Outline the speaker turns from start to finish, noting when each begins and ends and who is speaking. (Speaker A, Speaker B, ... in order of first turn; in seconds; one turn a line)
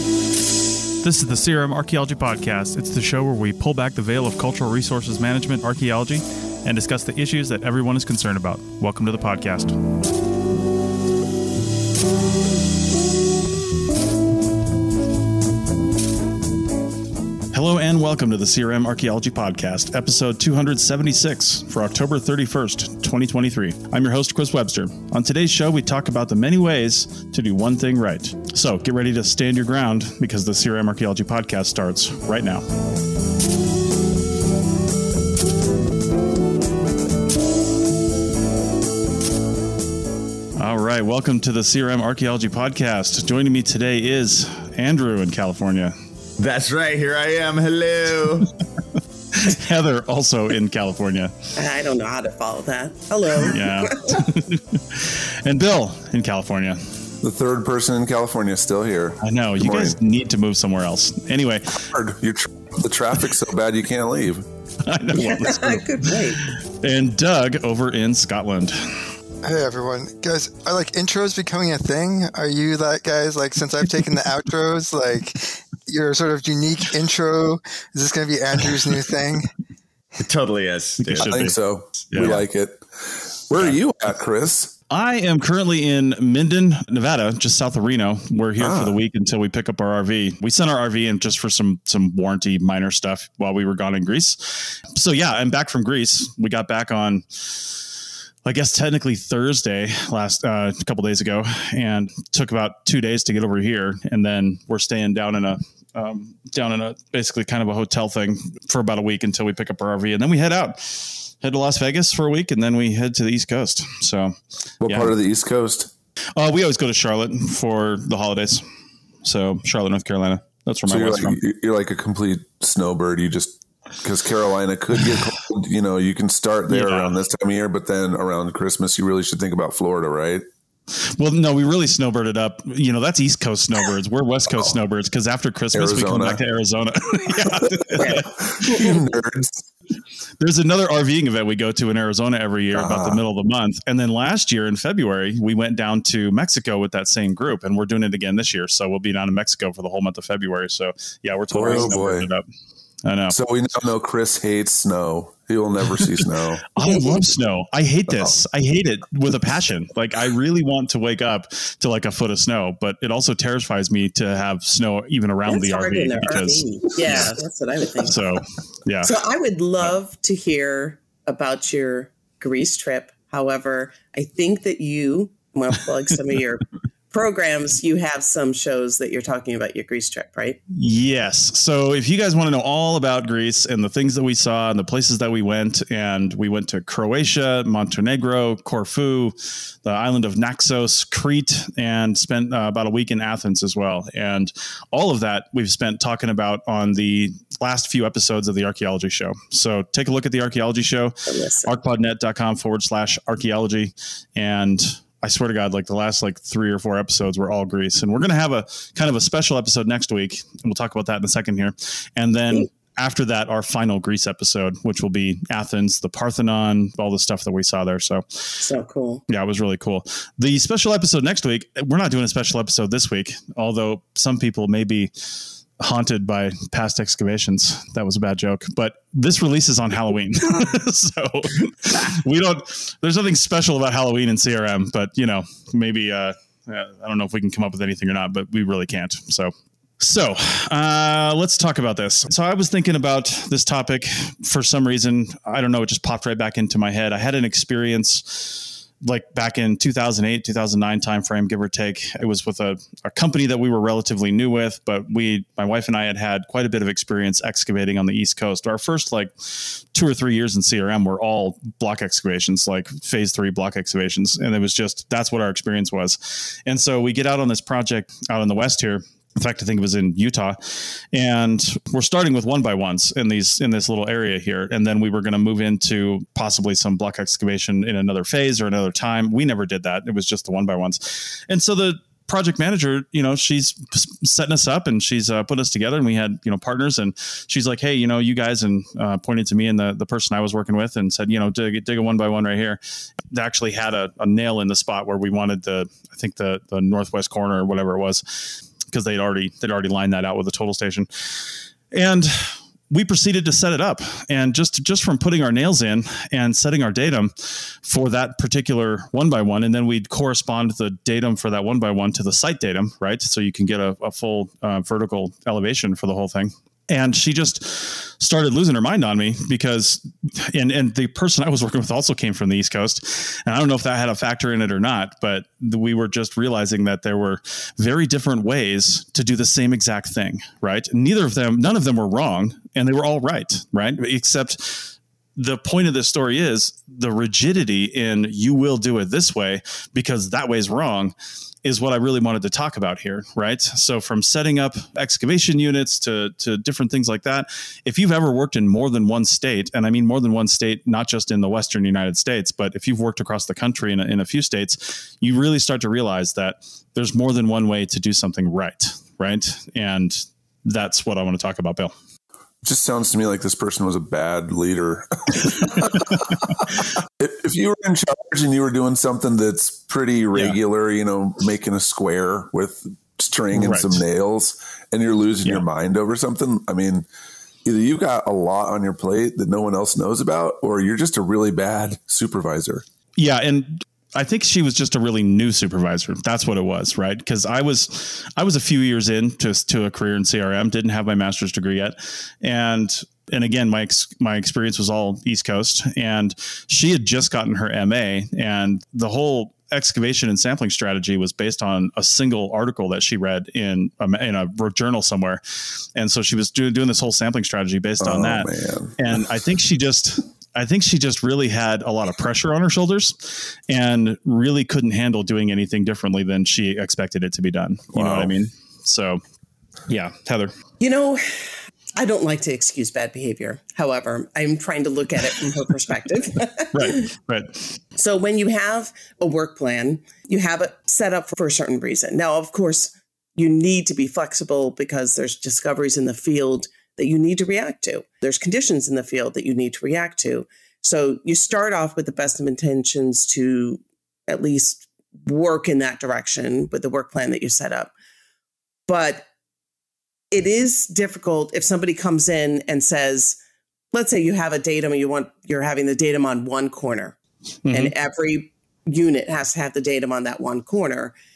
Speaker A: 1.0-9.8
Speaker A: 17.5-32.6
Speaker A: 40.6-45.9
Speaker B: 46.4-48.5
Speaker A: 49.0-51.3
Speaker C: 51.6-54.2
Speaker A: 53.4-56.9
Speaker D: 57.2-60.0
Speaker A: 59.2-61.8
Speaker D: 61.7-64.5
Speaker A: 64.8-69.0
Speaker C: 65.2-66.4
Speaker E: 69.4-79.5
Speaker B: 80.2-81.5
Speaker A: 81.1-81.5
Speaker D: 81.2-84.7
Speaker A: 82.1-82.4
Speaker A: 84.9-97.9
Speaker D: 88.6-89.0
Speaker A: 98.5-115.1
Speaker D: 114.8-115.9
Speaker A: 116.4-118.6
Speaker A: 119.2-121.4
Speaker D: 120.9-130.4
Speaker A: 126.7-127.1
Speaker A: 131.2-138.9
Speaker D: 135.7-136.4
Speaker D: 137.4-139.7
Speaker C: 138.0-139.0
Speaker A: 140.4-152.4
Speaker D: 142.7-143.2
Speaker D: 151.5-152.3
Speaker A: 153.1-153.4
Speaker D: 153.3-156.6
Speaker A: 156.8-167.4
Speaker C: 165.5-168.2
Speaker A: 168.0-169.2
Speaker C: 169.0-180.6
Speaker A: 180.7-218.7
Speaker C: 201.3-201.7
Speaker C: 218.6-219.2
Speaker A: 219.3-225.1
Speaker A: 225.8-341.1
Speaker A: 341.6-361.9
Speaker D: 362.6-377.1
Speaker A: 365.4-366.5
Speaker A: 373.5-374.0
Speaker D: 377.6-382.8
Speaker A: 383.2-405.4
Speaker A: 405.9-419.2
Speaker D: 408.0-409.2
Speaker D: 417.9-418.3
Speaker A: 419.9-420.5
Speaker C: 420.8-427.1
Speaker A: 426.7-427.7
Speaker C: 428.0-447.9
Speaker C: 448.9-449.3
Speaker C: 450.3-453.4
Speaker C: 453.9-457.2
Speaker A: 457.6-457.9
Speaker C: 457.7-461.1